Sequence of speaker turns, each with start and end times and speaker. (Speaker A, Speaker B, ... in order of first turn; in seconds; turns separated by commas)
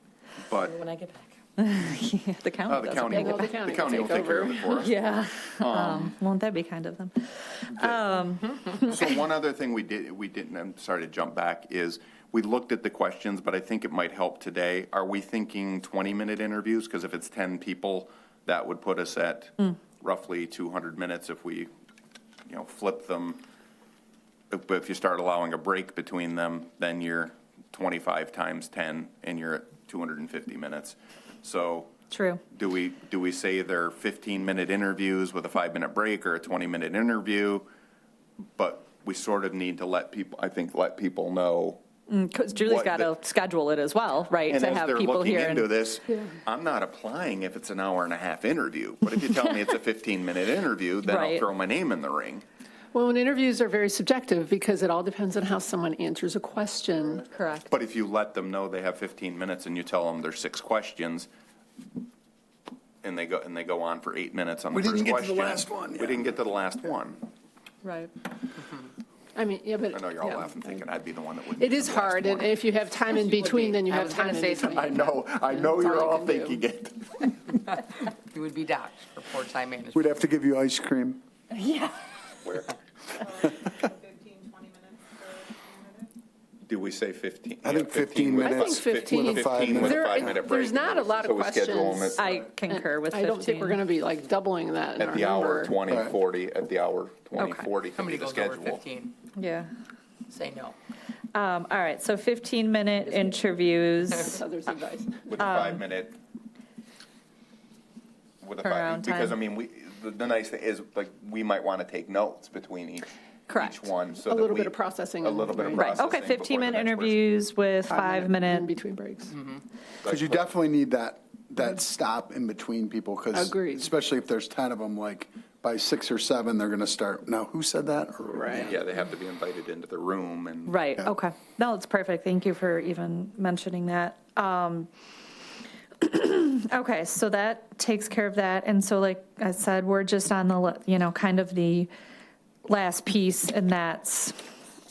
Speaker A: 0.5-0.8, Speaker B: 0.5-1.3, Speaker C: 1.6-9.0, Speaker A: 2.7-6.2, Speaker D: 3.1-4.8, Speaker A: 7.7-8.0, Speaker A: 8.9-21.7, Speaker A: 22.5-23.4, Speaker A: 24.5-31.9, Speaker C: 32.1-32.4, Speaker A: 32.5-37.6, Speaker A: 38.5-41.8, Speaker C: 42.1-45.7, Speaker A: 42.6-43.1, Speaker A: 44.5-52.4, Speaker C: 51.0-51.5, Speaker D: 52.9-57.2, Speaker C: 57.3-57.7, Speaker A: 57.7-61.3, Speaker A: 63.0-67.2, Speaker E: 64.7-66.3, Speaker C: 67.8-68.1, Speaker D: 69.3-70.6, Speaker A: 69.9-72.6, Speaker D: 71.6-76.6, Speaker B: 73.1-75.1, Speaker A: 74.7-77.3, Speaker B: 78.3-80.2, Speaker E: 79.9-81.2, Speaker C: 81.5-81.9, Speaker A: 82.4-82.7, Speaker A: 86.7-92.3, Speaker E: 87.6-90.3, Speaker D: 88.4-95.8, Speaker C: 92.1-93.8, Speaker A: 95.0-98.8, Speaker E: 95.9-96.1, Speaker C: 97.4-97.7, Speaker B: 97.9-99.1, Speaker C: 99.3-99.7, Speaker B: 100.3-100.8, Speaker C: 101.3-104.4, Speaker D: 104.3-105.4, Speaker A: 105.3-106.2, Speaker C: 105.4-105.8, Speaker A: 108.4-117.2, Speaker C: 108.6-109.4, Speaker C: 113.5-113.9, Speaker D: 114.2-116.0, Speaker C: 115.7-118.7, Speaker D: 117.9-119.3, Speaker A: 120.0-120.4, Speaker E: 120.0-128.7, Speaker D: 123.3-123.8, Speaker D: 128.3-128.8, Speaker A: 128.6-130.8, Speaker C: 130.7-134.9, Speaker C: 136.0-141.9, Speaker C: 142.7-144.4